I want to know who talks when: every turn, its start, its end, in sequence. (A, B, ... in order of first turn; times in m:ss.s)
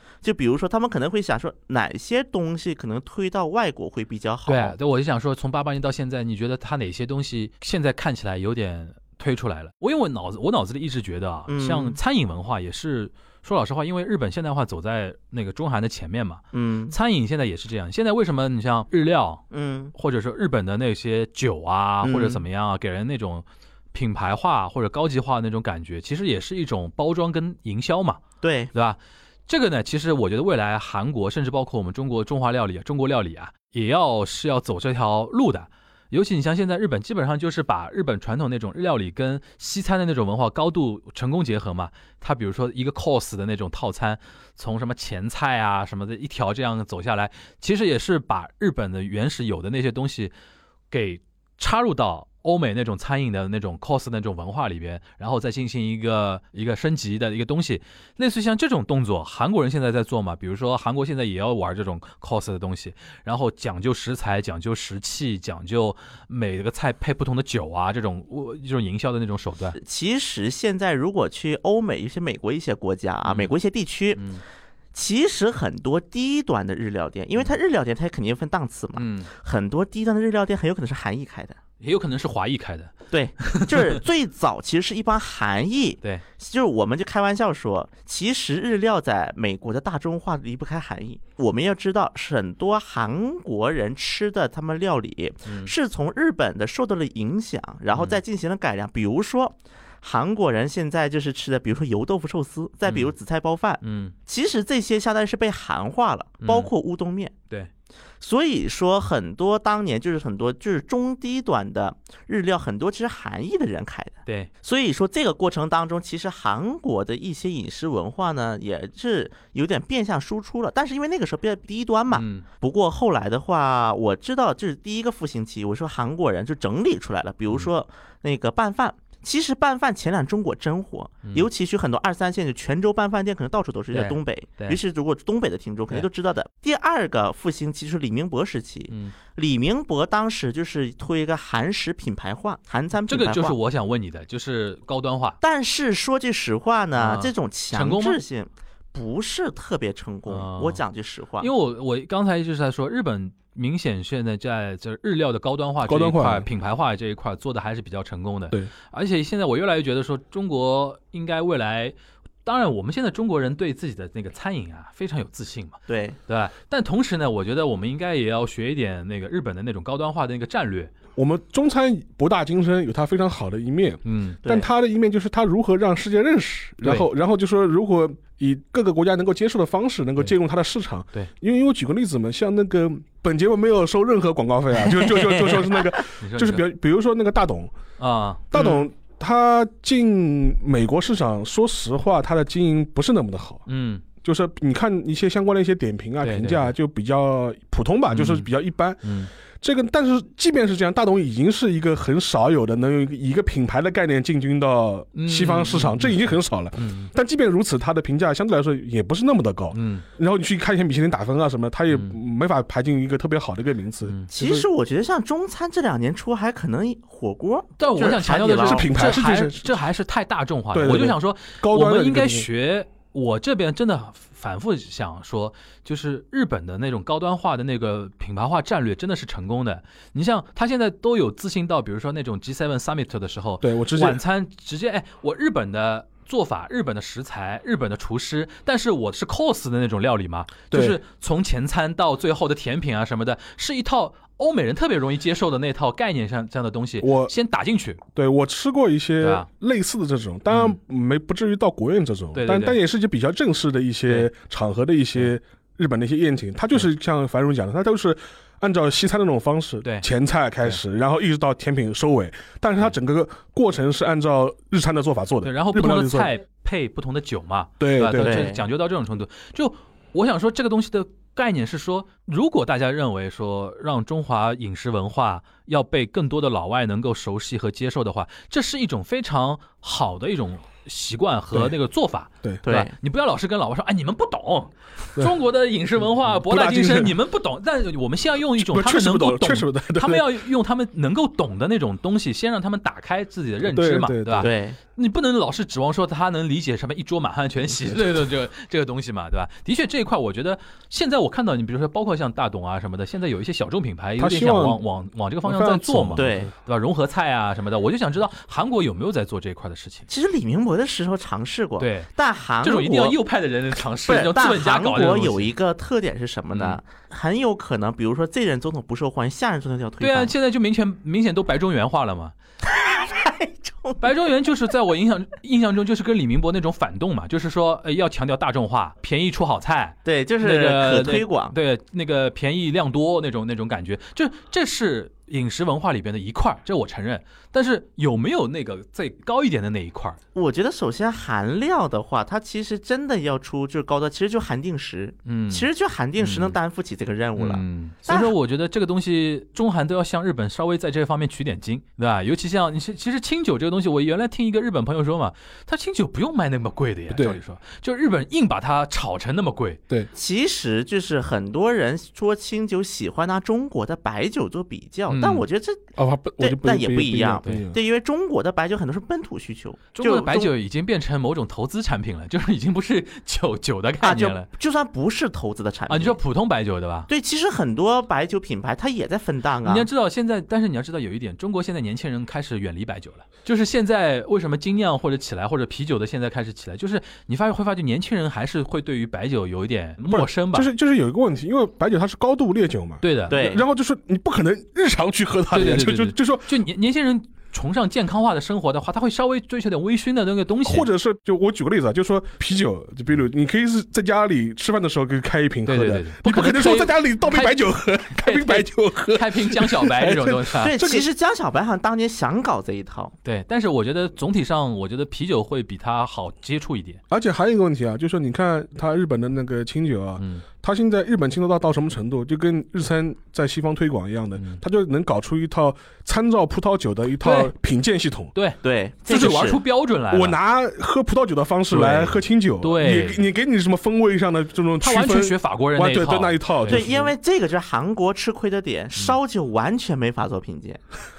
0:00.2-0:04.8 A
0:04.5-0:50.3 B
0:11.5-0:12.0 A
0:16.5-0:16.9 A
0:19.5-0:19.9 A
0:22.0-0:22.4 A
0:28.4-0:28.7 A
0:50.9-1:09.8 B
1:09.7-1:14.2 A
1:13.2-1:13.5 B
1:14.2-1:14.4 B
1:14.9-1:21.6 A
1:19.0-1:19.3 B
1:21.8-1:24.0 B
1:23.1-1:47.3 A
1:35.5-1:35.7 B
1:37.9-1:38.2 B
1:42.9-1:43.1 B
1:43.8-1:44.1 B
1:46.4-1:46.7 B
1:48.2-2:23.6 A
2:02.1-2:02.4 B
2:13.9-2:14.8 B
2:23.0-2:25.4 B
2:25.4-2:31.5 A
2:27.0-2:28.2 B
2:30.3-2:30.8 B
2:31.4-2:50.9 B
2:35.8-2:36.5 C
2:45.9-2:46.2 A
2:51.2-3:07.7 C
2:54.0-2:54.4 B
2:56.8-2:57.1 B
3:06.2-3:06.6 B
3:08.0-3:08.5 B
3:08.5-3:13.6 C
3:08.6-3:08.8 A
3:13.7-3:14.0 B
3:14.2-3:34.7 C
3:16.2-3:16.7 B
3:18.1-3:18.5 B
3:19.0-3:19.3 B
3:25.1-3:27.1 B
3:29.7-3:30.0 B
3:34.3-3:38.9 A
3:37.8-4:08.0 B
3:38.6-3:39.8 C
3:40.7-3:42.5 C
3:53.6-3:54.2 C
4:00.7-4:01.0 C
4:07.0-4:07.3 C
4:08.1-4:26.3 C
4:09.2-4:09.5 B
4:10.5-4:10.8 B
4:12.3-4:12.8 B
4:25.4-5:10.1 B
4:27.8-4:28.5 C
4:28.2-4:28.6 A
4:42.6-4:42.9 A
4:46.2-4:47.2 C
4:48.5-4:50.3 C
4:53.6-4:54.5 C
4:54.4-4:54.8 A
4:57.7-4:58.2 C
5:04.2-5:04.8 C
5:05.4-5:06.5 C
5:06.2-5:06.5 A
5:10.1-5:13.2 A
5:11.8-5:12.1 B
5:12.6-5:15.5 B
5:14.1-5:20.3 A
5:16.5-5:16.8 B
5:20.0-5:22.3 B
5:22.6-5:24.0 A
5:24.0-5:40.2 B
5:30.0-5:31.6 A
5:40.3-5:48.3 A
5:45.2-5:46.6 B
5:47.4-5:59.8 B
5:57.1-5:57.4 C
6:00.1-6:05.8 A
6:05.1-6:05.4 B
6:06.0-6:07.8 C
6:06.4-6:10.5 A
6:10.0-6:14.5 B
6:14.0-6:16.2 A
6:15.9-6:17.1 B
6:17.1-6:19.9 A
6:19.6-6:30.7 B
6:30.1-6:36.5 C
6:33.0-6:33.4 B
6:33.3-6:33.6 A
6:35.5-6:40.9 B
6:40.6-6:51.0 C
6:45.7-6:50.8 B
6:50.6-6:53.1 A
6:53.2-6:57.0 B
6:57.1-7:08.3 C
7:00.2-7:00.4 B
7:04.4-7:04.6 B
7:07.2-7:07.5 B
7:08.3-7:10.4 B
7:08.6-7:09.6 A
7:10.1-7:17.1 C
7:11.7-7:13.3 B
7:14.8-7:16.9 B
7:16.7-7:20.8 A